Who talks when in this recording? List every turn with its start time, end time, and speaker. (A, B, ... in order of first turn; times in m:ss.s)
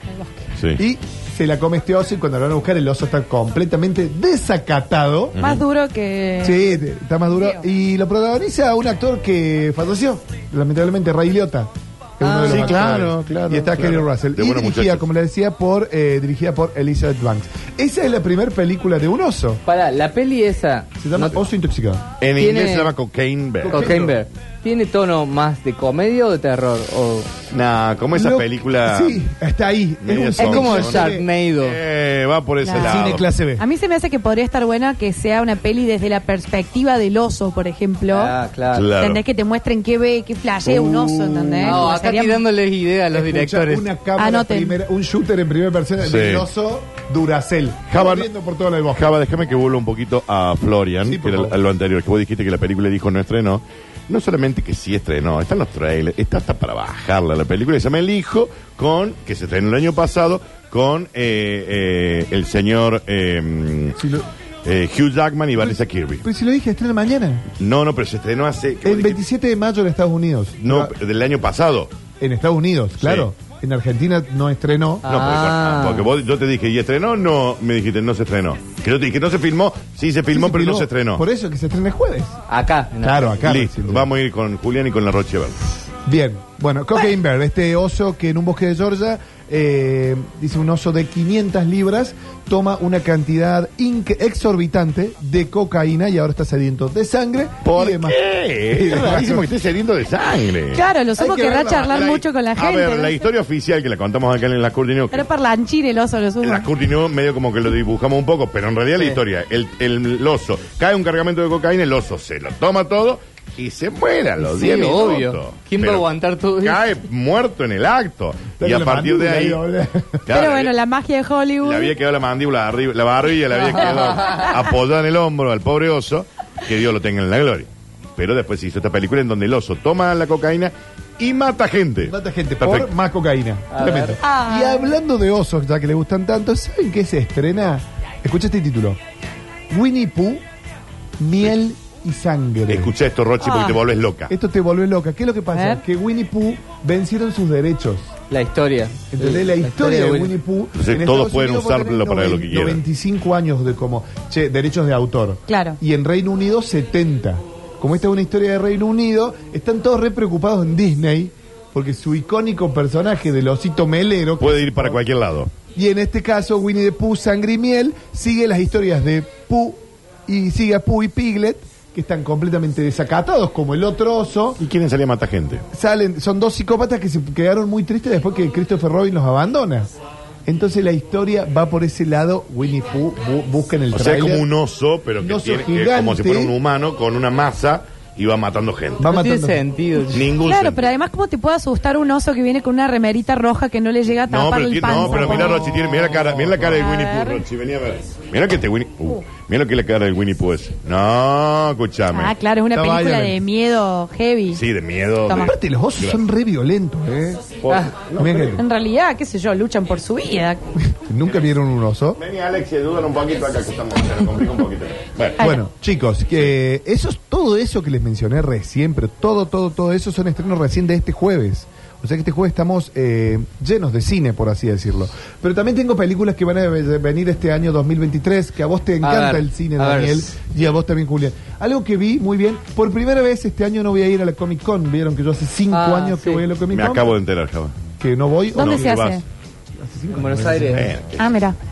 0:00.6-0:00.8 A
0:00.8-0:05.4 B
0:05.4-0:05.6 A
0:05.4-0:06.7 C
0:06.4-0:19.6 B
0:07.3-0:07.6 C
0:12.2-0:12.9 D
0:12.4-0:15.1 A
0:19.7-0:21.4 D
0:21.0-0:22.1 B
0:22.2-0:24.0 A
0:22.4-0:22.9 D
0:23.6-0:24.2 B
0:23.7-0:27.3 D
0:27.5-0:29.2 A
0:28.1-0:31.2 B
0:30.0-0:33.3 A
0:30.4-0:31.8 D
0:32.6-0:38.4 C
0:32.8-0:33.6 B
0:38.1-0:38.9 D
0:38.7-0:39.2 A
0:38.9-0:42.4 C
0:40.7-0:41.8 B
0:41.6-0:43.9 D
0:43.1-0:49.2 B
0:44.2-0:44.8 C
0:46.0-0:46.5 A
0:47.9-0:48.3 A
0:48.9-1:04.0 A
0:51.0-0:51.6 B
1:04.0-1:04.3 B
1:04.6-1:06.3 A
1:05.6-1:07.5 B
1:07.6-1:09.2 A
1:08.8-1:11.0 B
1:10.6-1:11.9 A
1:12.2-1:15.1 B
1:13.0-1:13.3 A
1:15.0-1:16.1 D
1:15.0-1:21.2 A
1:20.3-1:22.4 B
1:22.5-1:23.4 D
1:23.0-1:24.1 B
1:23.4-1:25.6 A
1:26.0-1:39.5 B
1:37.6-1:40.9 A
1:40.7-1:43.2 C
1:41.2-1:42.1 B
1:41.9-1:45.3 A
1:45.1-1:46.7 C
1:46.4-1:59.6 A
1:54.4-1:56.8 D
1:58.6-2:00.4 B
2:00.3-2:00.7 A
2:00.3-2:01.9 C
2:01.6-2:12.9 A
2:03.7-2:04.5 D
2:12.0-2:19.0 B
2:13.7-2:14.2 D
2:14.2-2:14.9 C
2:19.7-2:20.4 B
2:21.2-2:22.9 B
2:22.7-2:24.3 A
2:23.4-2:23.8 C
2:24.3-2:28.1 B
2:25.5-2:25.8 C
2:28.3-2:30.3 D
2:29.1-2:45.0 B
2:30.8-2:32.8 A
2:35.5-2:35.8 C
2:44.4-2:45.5 A
2:45.7-2:54.6 B
2:54.6-2:55.6 A
2:55.7-2:59.9 B
3:00.5-3:04.5 B
3:03.9-3:09.1 A
3:05.2-3:06.6 B
3:09.0-3:09.6 B
3:09.0-3:10.3 D
3:10.1-3:10.9 A
3:10.4-3:15.8 C
3:14.3-3:22.3 A
3:14.9-3:16.7 B
3:16.7-3:17.4 C
3:22.1-3:24.6 C
3:22.7-3:23.4 B
3:24.5-3:26.2 A
3:25.3-3:25.5 C
3:25.3-3:27.6 B
3:27.6-3:28.6 A
3:28.1-3:28.6 B
3:28.6-3:30.6 C
3:31.0-3:32.2 B
3:32.2-3:35.5 A
3:35.4-3:57.2 B
3:49.0-3:50.3 D
3:55.7-3:56.4 D
3:56.7-3:57.7 A
3:58.0-3:59.1 B
3:58.6-3:59.2 C
3:58.6-3:59.2 A
3:59.8-4:00.9 B
4:00.1-4:00.9 D
4:00.7-4:01.3 A
4:01.2-4:01.6 C